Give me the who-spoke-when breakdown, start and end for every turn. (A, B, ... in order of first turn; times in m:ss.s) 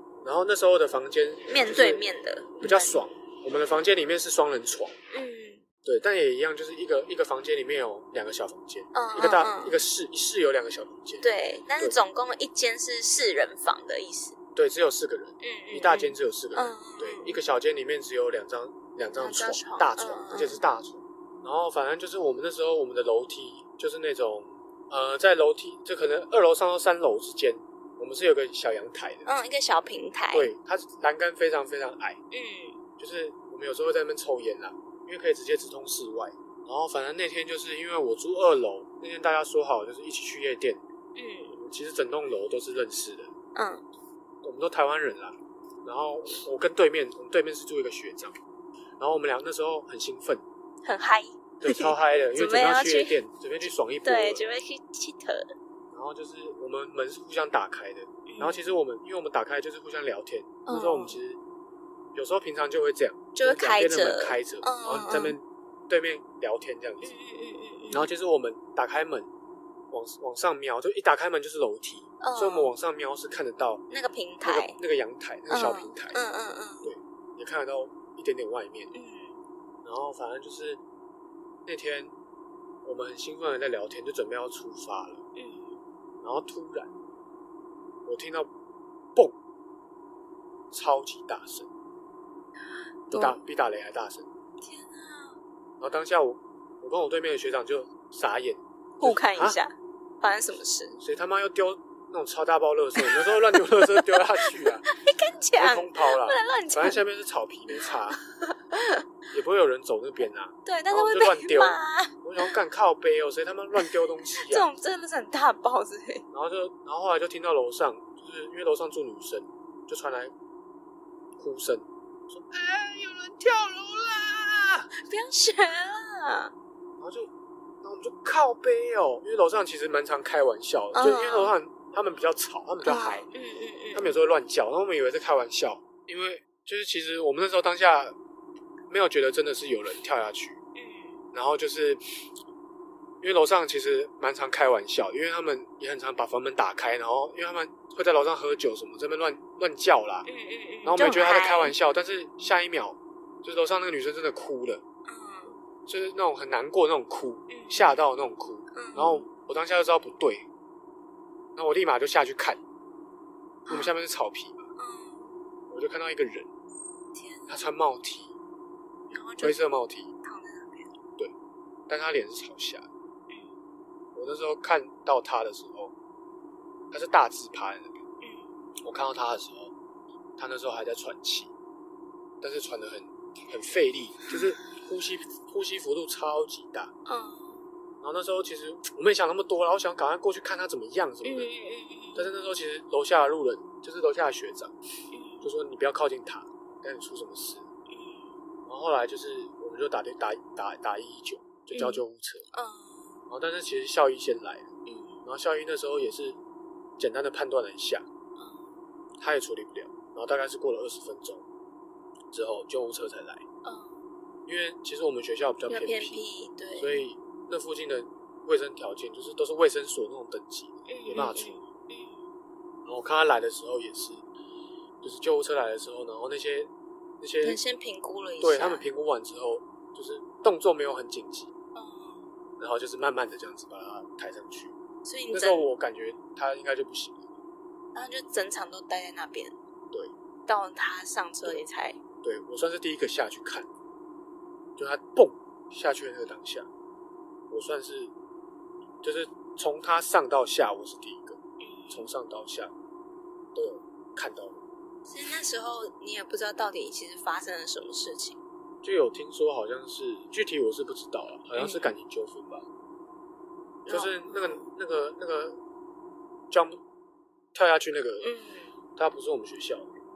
0:00.2-0:02.0 A
0:01.5-0:02.9 B
0:02.6-0:04.9 A
0:05.1-0:05.6 B
0:05.8-0:12.0 A
0:08.9-0:09.8 B
0:11.2-0:14.4 B
0:14.6-0:29.3 A
0:15.4-0:17.4 B
0:19.2-0:20.6 B
0:29.2-0:30.5 B
0:30.3-0:32.2 A
0:32.3-0:32.8 B
0:33.0-0:40.8 A
0:41.1-0:41.6 B
0:41.6-0:43.3 A
0:43.5-0:43.8 B
0:44.4-0:48.3 A
0:49.0-0:50.4 A
0:50.8-0:53.2 B
0:51.6-0:54.5 A
0:54.0-0:55.4 B
0:55.9-1:01.4 A
0:58.3-0:58.7 B
1:00.6-1:01.2 B
1:02.1-1:07.1 A
1:03.4-1:05.4 B
1:07.0-1:08.1 B
1:07.9-1:09.3 A
1:09.9-1:13.8 A
1:12.2-1:12.7 B
1:13.9-1:14.8 B
1:14.4-1:16.2 A
1:15.5-1:16.9 B
1:16.8-1:18.9 A
1:18.9-1:19.4 B
1:19.8-1:20.8 A
1:21.6-1:22.1 A
1:22.8-1:25.2 A
1:25.4-1:25.8 B
1:26.2-1:26.9 A
1:28.0-1:28.5 A
1:30.7-1:31.7 A
1:33.1-1:33.4 B
1:33.1-1:34.2 A
1:34.6-1:35.4 B
1:35.8-1:39.6 A
1:39.0-1:41.0 B
1:41.0-1:44.8 A
1:43.0-1:47.0 B
1:45.6-1:48.2 A
1:47.8-1:49.0 B
1:49.3-1:54.7 A
1:50.6-1:52.5 B
1:53.8-1:56.2 B
1:56.3-2:00.3 A
2:01.4-2:04.9 A
2:05.1-2:06.5 B
2:07.0-2:07.3 A
2:07.8-2:13.2 A
2:10.9-2:11.5 B
2:12.8-2:14.2 B
2:13.9-2:18.1 A
2:18.9-2:20.6 A
2:20.8-2:21.2 B
2:21.3-2:22.0 A
2:23.2-2:30.3 A
2:30.2-2:31.7 B
2:30.8-2:34.8 A
2:35.0-2:35.6 B
2:35.8-2:40.4 A
2:37.5-2:38.0 B
2:38.7-2:39.3 B
2:41.6-2:42.6 A
2:43.7-2:43.9 B
2:43.7-2:44.7 A
2:44.8-2:45.4 B
2:45.7-2:46.5 A
2:47.1-2:47.6 B
2:47.5-2:48.3 A
2:49.1-2:49.6 B
2:49.4-2:50.0 A
2:50.2-2:50.9 B
2:51.9-2:52.9 A
2:54.1-2:55.9 A
2:56.9-2:58.0 A
2:58.2-2:58.6 B
2:58.8-2:59.7 A
3:00.4-3:01.5 A
3:02.4-3:06.9 A
3:07.1-3:07.6 B
3:08.0-3:11.5 A
3:11.2-3:12.3 B
3:12.2-3:14.7 A
3:15.1-3:15.5 B
3:15.4-3:17.7 A
3:17.9-3:18.4 B
3:18.6-3:22.5 A
3:21.7-3:23.2 B
3:23.3-3:24.7 A
3:24.8-3:25.2 B
3:25.2-3:26.4 A
3:27.0-3:28.0 A
3:28.4-3:28.7 B
3:29.2-3:31.4 A
3:32.3-3:33.4 A
3:33.6-3:34.0 B
3:34.5-3:36.2 A
3:35.7-3:37.0 B
3:36.7-3:41.6 A
3:40.9-3:42.2 B
3:42.8-3:44.2 A
3:45.0-3:47.6 A
3:47.4-3:48.9 B
3:48.4-3:51.5 A
3:51.7-3:52.3 B
3:52.6-3:54.7 A
3:55.0-3:55.7 B
3:55.3-3:57.3 A
3:57.9-3:59.6 B
4:00.5-4:02.0 B
4:02.2-4:03.7 A
4:04.8-4:06.7 A
4:07.5-4:08.1 A
4:09.0-4:11.4 A
4:11.6-4:12.1 B
4:11.9-4:12.7 A
4:13.5-4:14.6 A
4:15.1-4:18.4 B
4:18.8-4:22.6 A
4:21.6-4:21.9 B
4:23.8-4:25.6 A
4:23.9-4:24.7 B
4:26.5-4:26.8 A
4:27.5-4:28.3 A
4:28.2-4:28.7 B
4:29.0-4:29.9 A